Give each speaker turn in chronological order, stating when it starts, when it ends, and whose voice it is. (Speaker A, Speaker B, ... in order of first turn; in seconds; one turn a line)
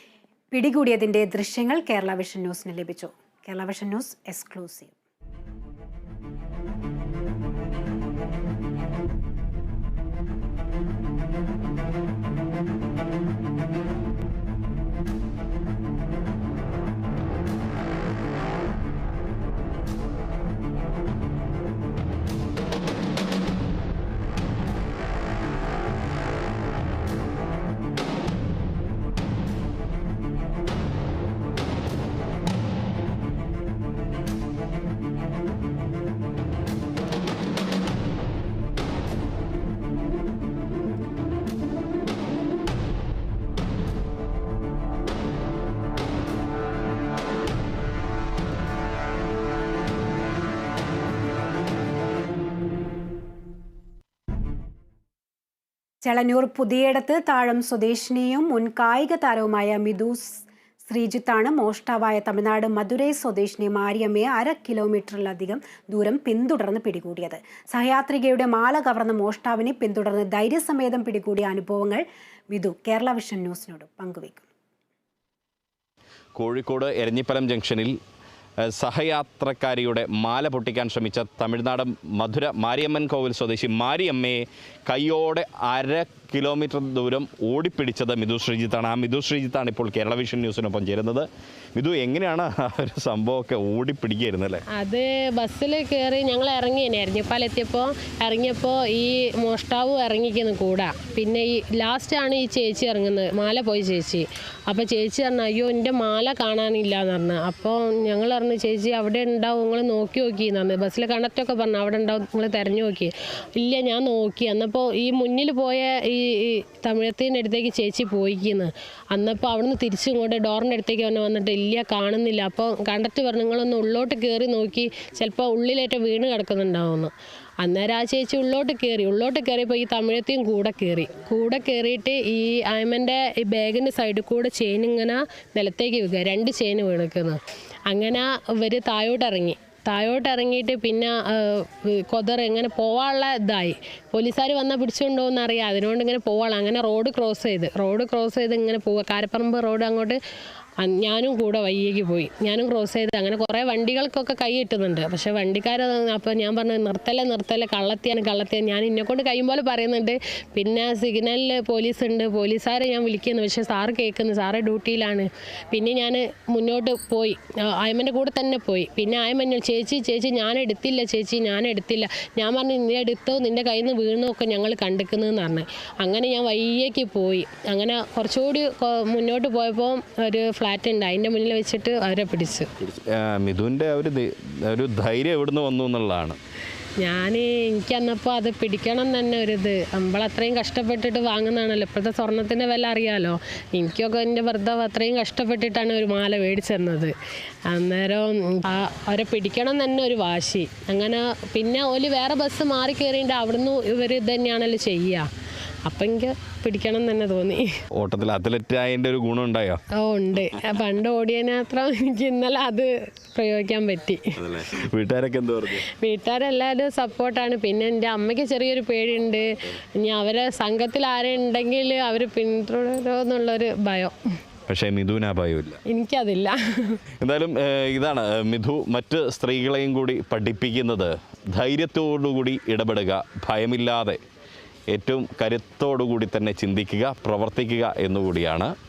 Speaker A: 0.5-5.0
Speaker A: 56.0-74.5
Speaker B: 76.4-77.9
Speaker B: 78.7-94.6
Speaker C: 94.8-150.2
Speaker C: 150.8-182.7
Speaker B: 182.8-186.4
Speaker C: 187.0-197.2
Speaker C: 197.7-205.3
Speaker C: 205.9-207.7
Speaker B: 208.0-209.8
Speaker C: 210.0-214.4
Speaker B: 214.4-215.9
Speaker C: 215.9-224.2
Speaker B: 224.7-225.8
Speaker C: 225.9-227.0
Speaker B: 227.2-234.2
Speaker B: 234.9-238.7